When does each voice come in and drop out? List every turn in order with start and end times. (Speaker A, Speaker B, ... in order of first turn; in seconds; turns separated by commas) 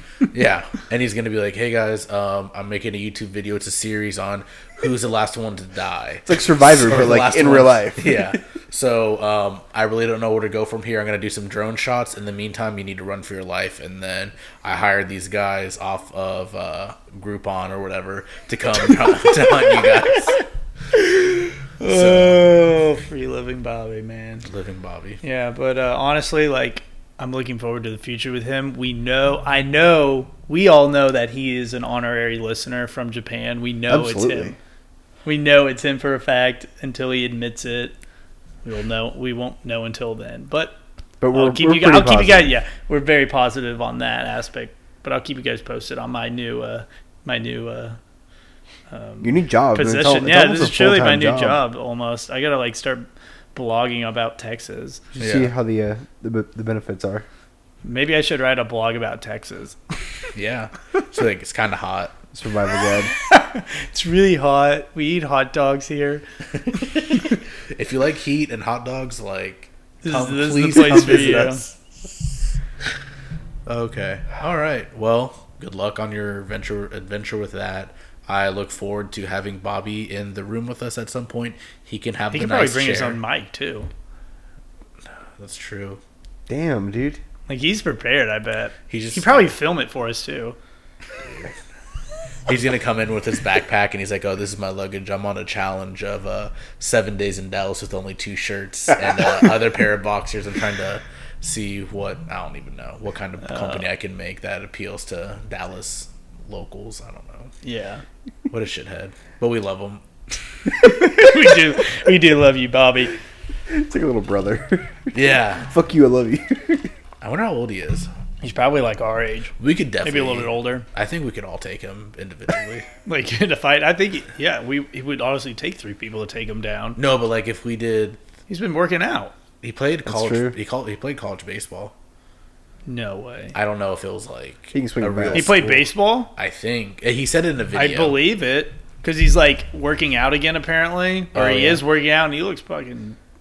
Speaker A: 0.3-20.4, Speaker B: 6.3-8.4, Speaker C: 20.9-24.5, Speaker A: 21.9-22.5, Speaker A: 24.5-25.2, Speaker C: 25.2-34.6, Speaker B: 33.9-34.6, Speaker C: 35.2-38.0, Speaker C: 38.6-40.8, Speaker B: 41.2-42.5, Speaker C: 41.3-48.0, Speaker C: 48.9-55.1, Speaker B: 49.2-51.6, Speaker B: 55.2-57.3, Speaker A: 55.2-55.5, Speaker C: 57.8-59.8, Speaker A: 60.4-62.1, Speaker B: 62.3-63.1, Speaker C: 63.1-66.2, Speaker A: 66.7-71.8, Speaker C: 70.0-71.6, Speaker A: 73.7-83.2, Speaker C: 82.3-83.9, Speaker A: 85.4-86.0, Speaker B: 86.5-87.2, Speaker C: 87.5-90.6, Speaker A: 88.9-89.5, Speaker A: 92.5-107.5, Speaker C: 103.5-103.8, Speaker C: 107.6-108.0, Speaker A: 108.5-110.0, Speaker C: 110.7-113.2, Speaker B: 113.7-116.9, Speaker A: 115.1-115.7, Speaker A: 117.2-118.1, Speaker C: 118.4-120.9, Speaker A: 119.6-122.9, Speaker C: 123.0-127.0, Speaker A: 127.0-128.2, Speaker C: 128.5-129.3, Speaker A: 129.6-131.9, Speaker B: 130.1-130.6, Speaker C: 132.9-133.6, Speaker A: 133.6-138.2, Speaker B: 134.7-135.6, Speaker C: 135.3-136.3, Speaker C: 137.7-143.2, Speaker A: 141.3-141.8